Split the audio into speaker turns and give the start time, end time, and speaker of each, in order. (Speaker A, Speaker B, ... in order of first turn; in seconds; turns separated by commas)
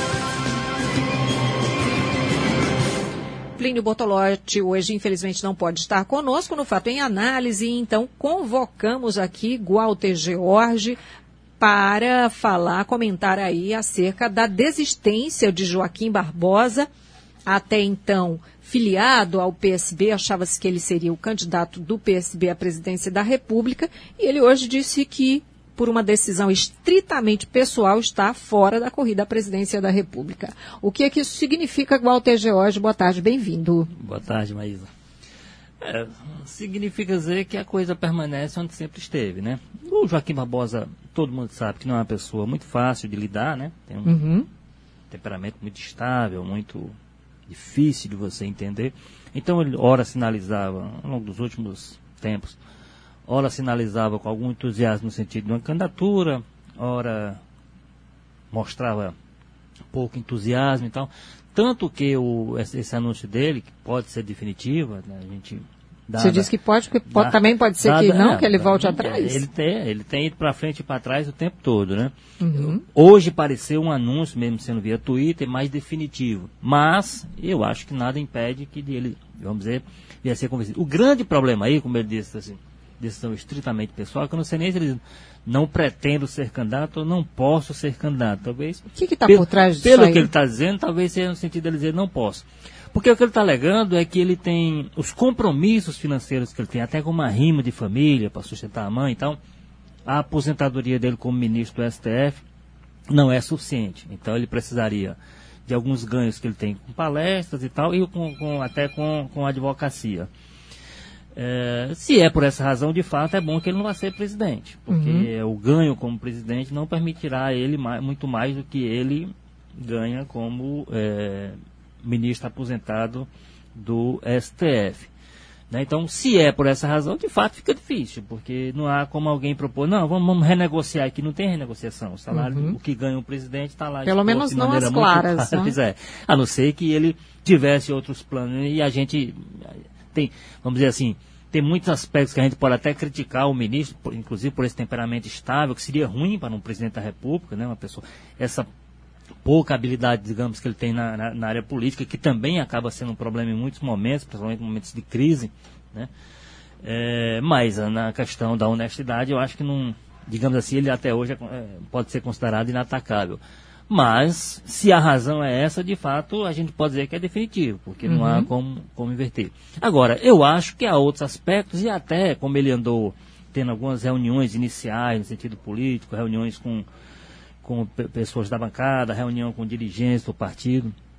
Speaker A: 3.6-11.0, Speaker A: 11.6-16.9, Speaker A: 17.5-33.9, Speaker B: 33.9-34.9, Speaker B: 35.8-44.2, Speaker A: 44.0-44.5, Speaker B: 45.1-46.9, Speaker B: 47.5-52.6, Speaker B: 53.2-57.4, Speaker B: 58.5-59.1, Speaker B: 59.9-66.5, Speaker A: 66.2-69.4, Speaker B: 67.1-99.4, Speaker A: 72.4-72.8, Speaker A: 88.9-90.3, Speaker B: 100.0-102.4, Speaker B: 103.1-110.3, Speaker B: 111.3-125.1, Speaker A: 114.9-115.3, Speaker B: 125.7-148.7, Speaker A: 132.3-132.8, Speaker A: 134.0-135.8, Speaker B: 149.4-156.1, Speaker B: 156.8-176.9, Speaker A: 168.0-168.5, Speaker B: 177.6-180.9